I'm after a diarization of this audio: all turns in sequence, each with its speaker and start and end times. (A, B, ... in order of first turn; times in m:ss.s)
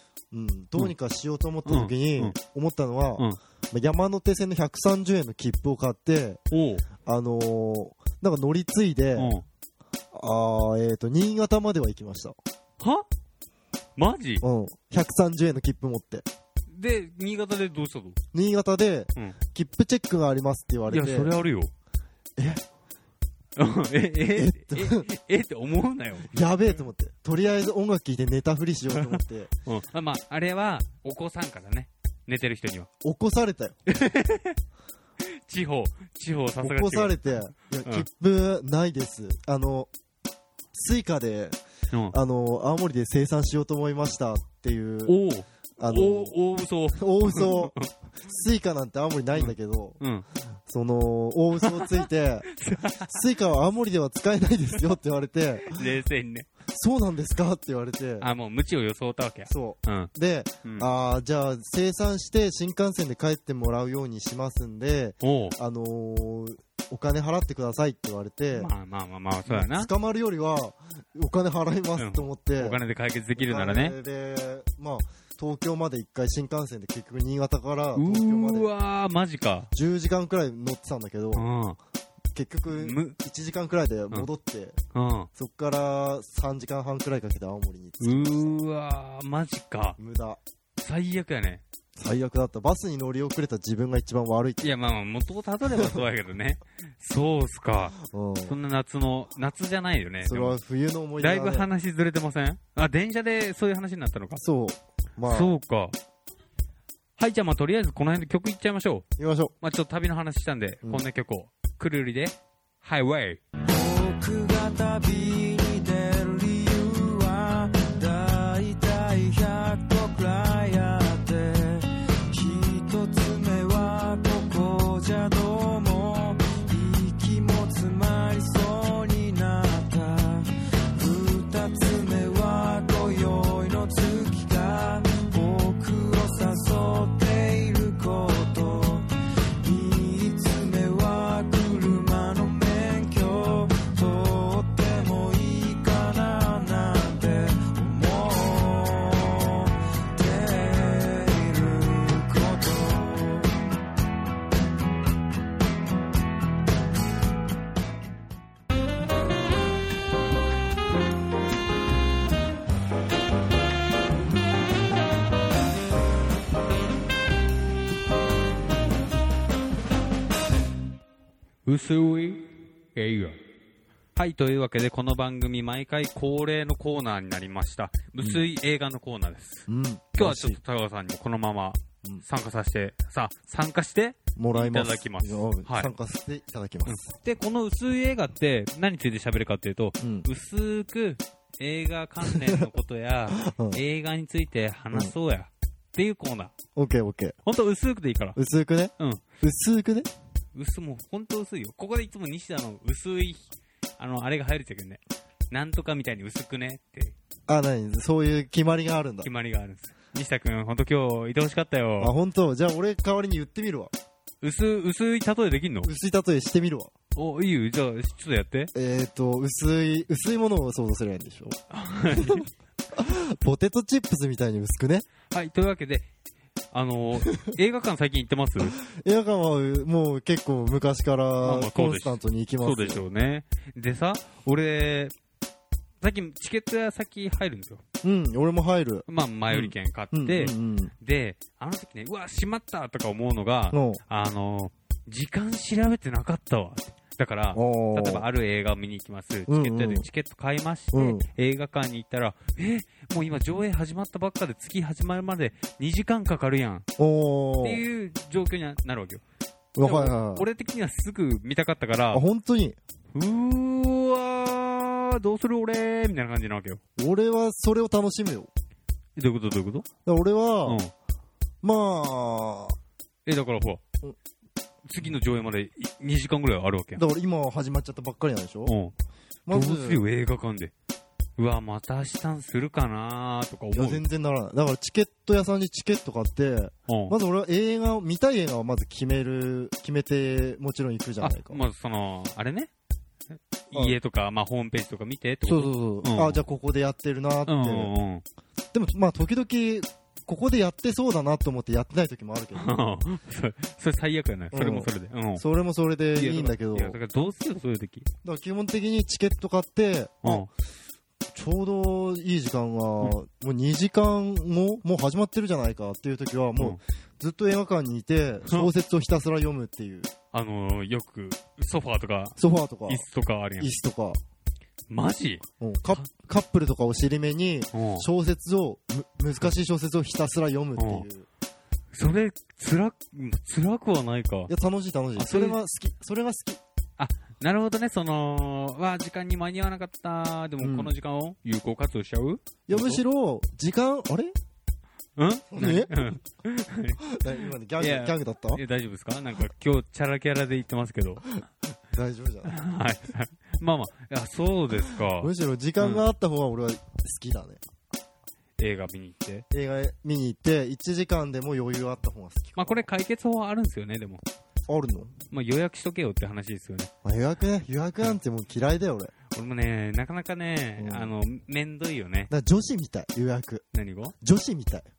0:00.3-0:06.4 A
0:01.7-0:02.4 B
0:06.5-0:06.8 B
0:07.0-0:09.3 A
0:09.2-0:09.4 B
0:10.1-0:12.4 A
0:12.8-0:13.1 B
0:14.0-0:14.4 B
0:14.4-0:16.3 A
0:16.7-0:18.2 B
0:18.3-0:21.3 A
0:20.9-0:21.7 B
0:22.4-0:22.6 A
0:23.6-0:26.3 B
0:23.7-0:25.1 A
0:26.3-0:29.5 A
0:28.9-0:32.9 B
0:33.0-0:33.8 A
0:33.9-0:34.6 B
0:35.2-0:37.2 B
0:36.6-0:39.9 A
0:40.7-0:41.6 A
0:41.9-0:42.2 B
0:42.1-0:45.2 A
0:45.1-0:47.9 B
0:45.8-0:46.4 A
0:46.9-0:50.0 A
0:49.4-0:50.2 B
0:50.7-0:55.9 A
0:51.6-0:53.2 B
0:55.7-0:56.5 B
0:56.7-0:58.3 A
0:58.2-1:00.1 B
0:59.5-1:08.7 A
1:05.2-1:05.6 B
1:08.5-1:09.9 B
1:09.5-1:12.8 A
1:12.0-1:14.0 B
1:13.4-1:18.7 A
1:18.0-1:19.7 B
1:19.7-1:21.5 A
1:21.3-1:21.8 B
1:22.3-1:24.8 A
1:22.7-1:23.2 B
1:24.9-1:25.3 B
1:25.4-1:28.5 A
1:28.0-1:30.0 B
1:30.0-1:30.4 A
1:30.8-1:31.6 B
1:32.0-1:34.8 A
1:34.6-1:40.6 B
1:35.7-1:36.0 A
1:38.1-1:38.6 A
1:40.2-1:41.7 A
1:41.2-1:44.4 B
1:44.4-1:45.6 A
1:45.2-1:46.0 B
1:47.2-1:49.0 B
1:49.2-1:49.5 A
1:49.6-1:53.4 B
1:53.7-2:19.1 C
2:19.6-2:33.5 C
2:51.6-2:53.4 B
2:54.2-3:05.9 B
2:58.2-2:58.4 A
2:59.7-3:00.6 A
3:04.4-3:07.1 A
3:06.9-3:16.5 B
3:10.0-3:10.3 A
3:12.2-3:12.6 A
3:13.3-3:13.8 A
3:16.8-3:17.4 A
3:17.4-3:18.4 B
3:18.4-3:20.1 A
3:20.6-3:25.0 B
3:25.5-3:27.2 B
3:27.5-3:29.3 A
3:29.2-3:32.1 B
3:32.0-3:33.9 A
3:34.4-3:35.9 B
3:35.8-3:36.9 A
3:37.2-3:38.7 B
3:38.7-3:41.6 A
3:41.7-3:42.5 B
3:42.1-3:45.1 A
3:45.3-3:46.1 B
3:46.7-3:48.8 B
3:48.6-3:53.1 A
3:51.4-3:55.1 B
3:56.0-3:57.8 B
3:58.0-4:00.9 A
3:59.1-4:16.9 B
4:03.7-4:04.0 A
4:07.5-4:08.3 A
4:09.5-4:10.1 A
4:10.9-4:11.2 A
4:17.0-4:17.8 A
4:17.6-4:19.2 B
4:19.8-4:20.5 A
4:19.8-4:22.2 B
4:22.1-4:22.8 A
4:23.1-4:26.8 B
4:27.0-4:28.5 A
4:29.2-4:29.9 B
4:30.0-4:30.8 A
4:30.6-4:30.9 B
4:31.6-4:32.8 A
4:33.3-4:33.8 B
4:34.9-4:37.0 B
4:37.0-4:38.7 A
4:38.6-4:38.9 B
4:39.5-4:40.0 A
4:39.5-4:40.7 B
4:41.4-4:44.0 B
4:43.7-4:51.6 A
4:46.9-4:47.2 B
4:51.2-4:52.7 B
4:53.7-4:56.4 B
4:53.7-4:54.0 A
4:55.4-4:57.9 A
4:57.5-4:58.2 B
4:58.7-5:02.7 A
5:02.6-5:05.4 B
5:04.5-5:07.0 A
5:06.1-5:08.1 B
5:08.2-5:10.5 A
5:10.2-5:10.5 B
5:11.3-5:20.1 A
5:18.4-5:18.7 B
5:20.3-5:23.7 B
5:22.4-5:23.1 A
5:23.6-5:24.2 A
5:24.9-5:26.0 B
5:25.6-5:31.3 A
5:27.7-5:28.1 B
5:30.8-5:31.1 B
5:31.9-5:34.5 B
5:34.5-5:36.6 A
5:35.2-5:35.6 B
5:37.0-5:43.0 B
5:40.6-5:40.9 A
5:42.7-5:44.3 A
5:45.2-5:47.0 B
5:45.5-5:45.9 A
5:47.0-5:48.6 A
5:47.8-5:51.3 B
5:51.9-5:52.6 A
5:52.4-5:56.0 B
5:55.1-5:57.6 A
5:58.6-5:59.5 B
5:59.5-6:02.9 A
6:02.6-6:04.2 B
6:04.7-6:05.2 A
6:05.3-6:06.9 B
6:07.0-6:09.1 A
6:09.3-6:12.3 B
6:10.8-6:11.1 A
6:12.3-6:13.6 A
6:13.7-6:14.1 B
6:14.2-6:14.9 A